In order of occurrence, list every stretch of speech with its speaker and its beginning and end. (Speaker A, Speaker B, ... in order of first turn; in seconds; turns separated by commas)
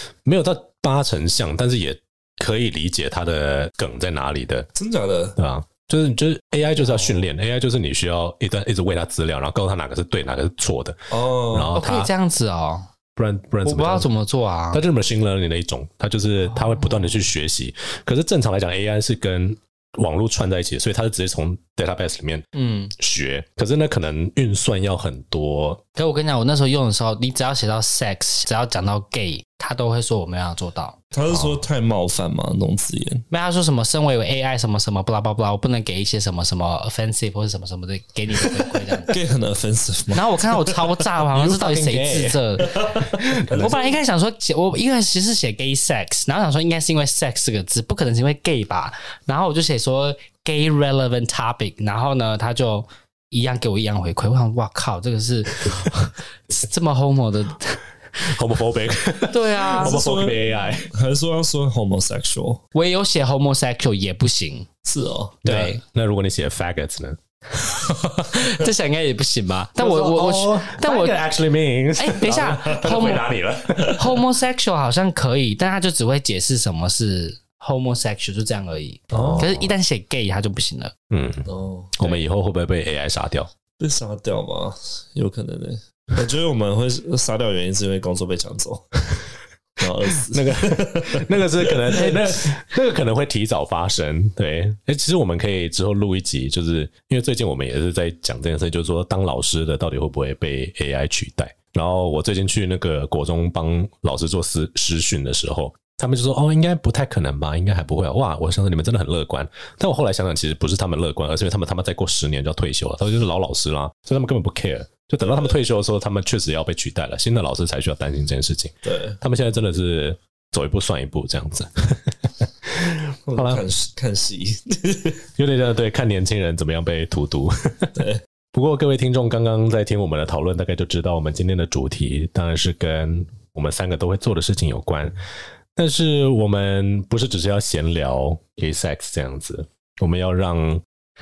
Speaker A: 0.2-4.7, Speaker B: 4.8-5.4, Speaker A: 5.4-12.1, Speaker C: 6.8-7.2, Speaker B: 11.1-11.8, Speaker C: 11.8-12.9, Speaker A: 13.2-14.1, Speaker C: 13.6-14.8, Speaker A: 14.7-25.8, Speaker C: 16.7-17.1, Speaker C: 22.6-22.9, Speaker C: 26.0-31.0, Speaker B: 31.1-33.2, Speaker A: 31.3-31.6, Speaker C: 33.3-39.1, Speaker B: 39.1-40.8, Speaker C: 40.1-42.9, Speaker A: 41.3-42.4, Speaker B: 42.7-43.9, Speaker A: 43.1-43.7, Speaker C: 43.5-57.8, Speaker A: 58.2-60.9, Speaker C: 59.3-60.0, Speaker B: 59.8-62.6, Speaker C: 62.8-64.7, Speaker B: 64.8-65.4, Speaker C: 65.4-65.8, Speaker A: 65.4-67.2, Speaker C: 67.7-71.2, Speaker A: 69.8-74.0, Speaker C: 72.0-73.3, Speaker B: 72.4-72.9, Speaker C: 73.8-80.9, Speaker B: 79.1-79.5, Speaker A: 79.1-79.7, Speaker A: 81.1-81.5, Speaker B: 81.5-82.2, Speaker A: 82.0-83.5, Speaker B: 83.8-88.9, Speaker B: 89.8-92.3, Speaker A: 90.3-123.6, Speaker B: 118.8-119.2, Speaker B: 123.3-125.3, Speaker A: 125.4-128.0, Speaker B: 128.0-128.2, Speaker A: 128.5-135.2, Speaker A: 135.8-140.8